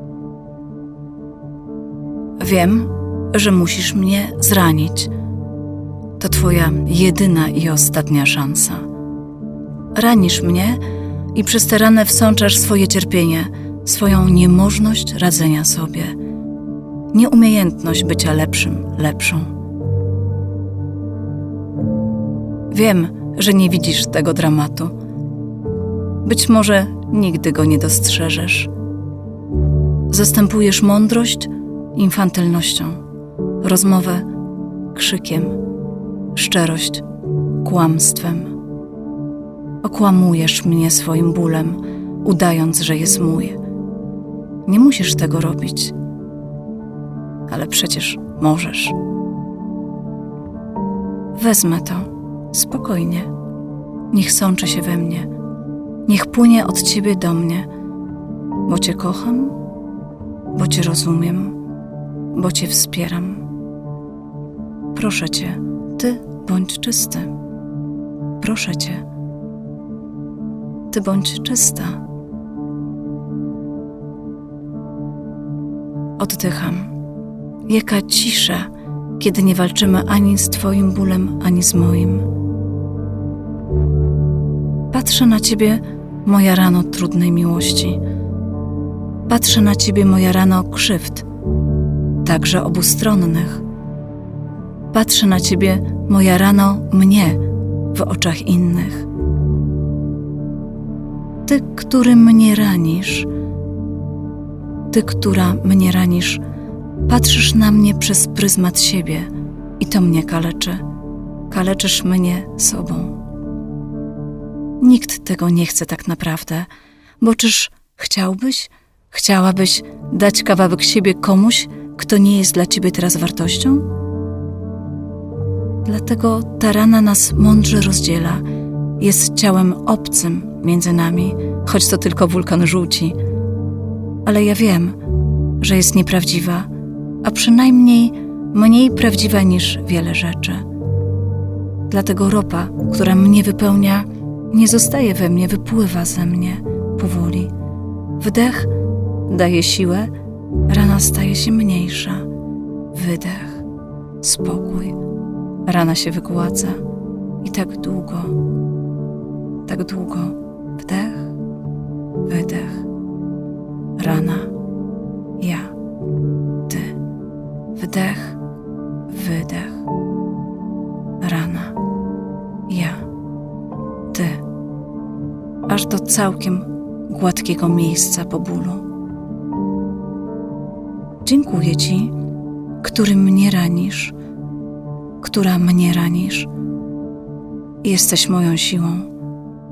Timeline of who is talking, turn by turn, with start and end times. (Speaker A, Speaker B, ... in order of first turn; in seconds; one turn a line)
Speaker A: 2.4-5.1
Speaker A: 6.2-8.8
Speaker A: 9.9-10.8
Speaker A: 11.3-16.1
Speaker A: 17.1-19.5
Speaker A: 22.7-24.9
Speaker A: 26.2-28.7
Speaker A: 30.1-33.0
Speaker A: 33.6-34.3
Speaker A: 34.9-35.6
Speaker A: 36.4-37.0
Speaker A: 37.6-38.5
Speaker A: 39.8-43.6
Speaker A: 44.7-46.0
Speaker A: 47.5-49.0
Speaker A: 51.4-53.3
Speaker A: 54.1-55.3
Speaker A: 56.1-57.7
Speaker A: 58.7-59.6
Speaker A: 60.5-61.6
Speaker A: 62.3-63.5
Speaker A: 64.9-67.3
Speaker A: 68.4-69.0
Speaker A: 70.9-72.0
Speaker A: 76.2-76.9
Speaker A: 77.7-82.3
Speaker A: 84.9-88.0
Speaker A: 89.3-91.3
Speaker A: 92.2-93.6
Speaker A: 94.9-99.1
Speaker A: 101.5-103.3
Speaker A: 104.9-106.4
Speaker A: 107.1-110.8
Speaker A: 111.5-113.2
Speaker A: 114.8-116.7
Speaker A: 117.2-123.9
Speaker A: 125.8-128.4
Speaker A: 129.0-133.2
Speaker A: 134.2-135.0
Speaker A: 135.6-136.7
Speaker A: 137.2-140.6
Speaker A: 141.9-147.5
Speaker A: 148.2-148.7
Speaker A: 149.3-150.1
Speaker A: 150.7-152.3
Speaker A: 152.9-153.7
Speaker A: 154.2-155.0
Speaker A: 155.7-156.8
Speaker A: 157.4-158.4
Speaker A: 159.7-161.3
Speaker A: 162.3-162.9
Speaker A: 164.0-164.5
Speaker A: 165.4-165.7
Speaker A: 166.7-167.0
Speaker A: 167.8-168.4
Speaker A: 169.1-169.9
Speaker A: 171.2-171.8
Speaker A: 172.7-173.1
Speaker A: 174.1-174.4
Speaker A: 175.7-178.8
Speaker A: 181.2-182.1
Speaker A: 182.8-184.2
Speaker A: 185.2-186.5
Speaker A: 187.8-189.1